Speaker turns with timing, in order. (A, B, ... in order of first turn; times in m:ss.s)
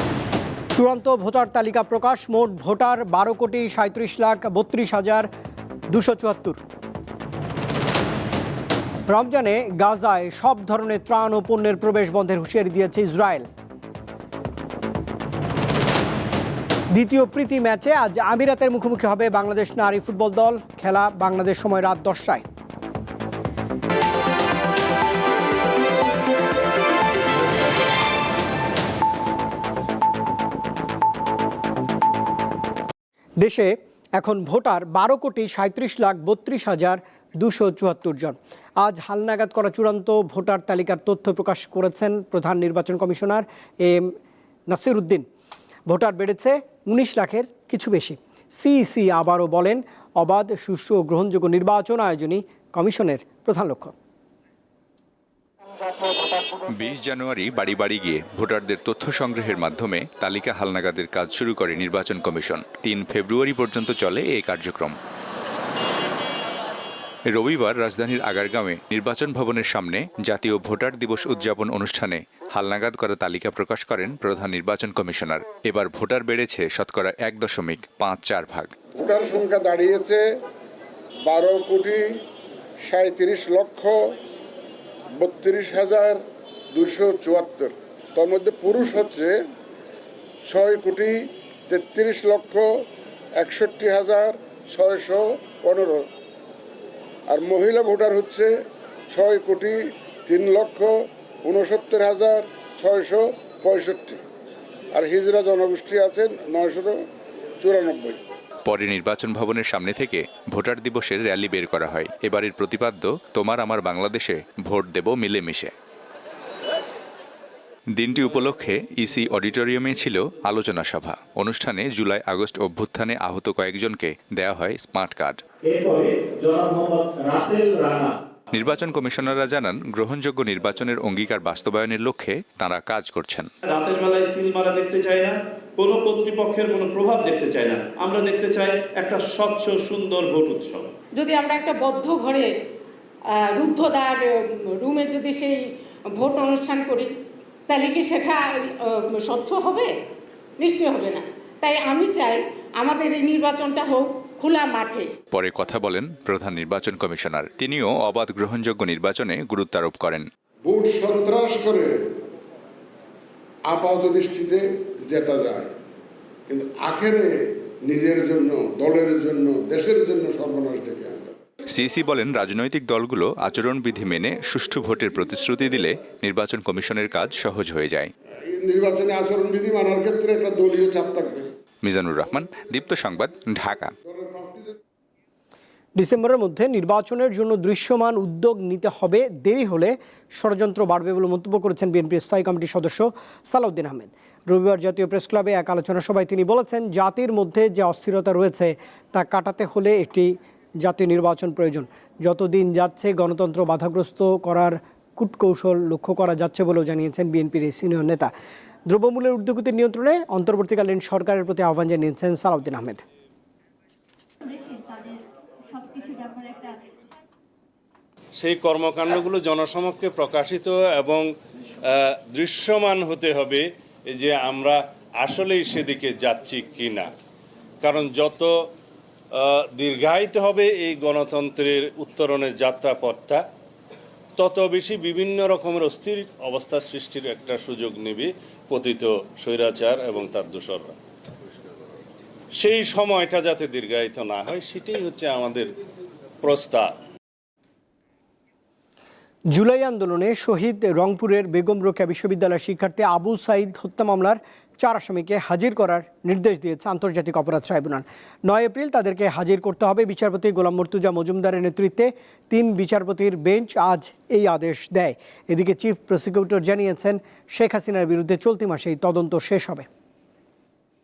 0:00.7-0:05.3 A
0:05.9-0:06.6 A
0:09.1-0:13.5 A
0:16.9-0:22.4 A
0:33.4-0:44.1 A
0:44.7-0:45.2 A
0:45.9-0:53.9 A
0:56.7-1:05.0 B
1:07.3-1:18.7 B
1:19.0-1:20.2 C
1:21.3-1:22.0 C
1:22.8-1:23.9 C
1:25.2-1:26.2 C
1:26.7-1:29.3 C
1:30.4-1:32.6 C
1:33.4-1:36.0 C
1:37.3-1:38.5 C
1:39.1-1:40.9 C
1:41.4-1:44.2 C
1:44.9-1:47.0 C
1:47.6-1:48.2 C
1:48.6-1:55.7 B
1:57.9-2:05.4 B
2:05.7-2:08.1 D
2:08.5-2:13.5 B
2:13.7-2:20.8 E
2:21.1-2:22.5 F
2:23.5-2:24.2 F
2:24.8-2:25.6 F
2:26.1-2:27.1 F
2:27.7-2:29.9 F
2:30.6-2:35.1 F
2:35.3-2:40.2 B
2:40.6-2:41.9 C
2:43.7-2:45.7 C
2:46.5-2:47.3 C
2:47.9-2:51.3 C
2:51.7-2:58.1 B
2:58.5-3:01.5 C
3:01.8-3:03.9 B
3:04.1-3:04.7 C
3:06.0-3:28.3 A
3:28.9-3:33.0 A
3:38.4-3:41.3 G
3:41.8-3:47.1 G
3:47.8-3:48.5 G
3:49.4-3:53.4 G
3:54.4-4:01.0 G
4:02.5-4:05.7 G
4:06.4-4:07.0 G
4:09.5-4:29.9 A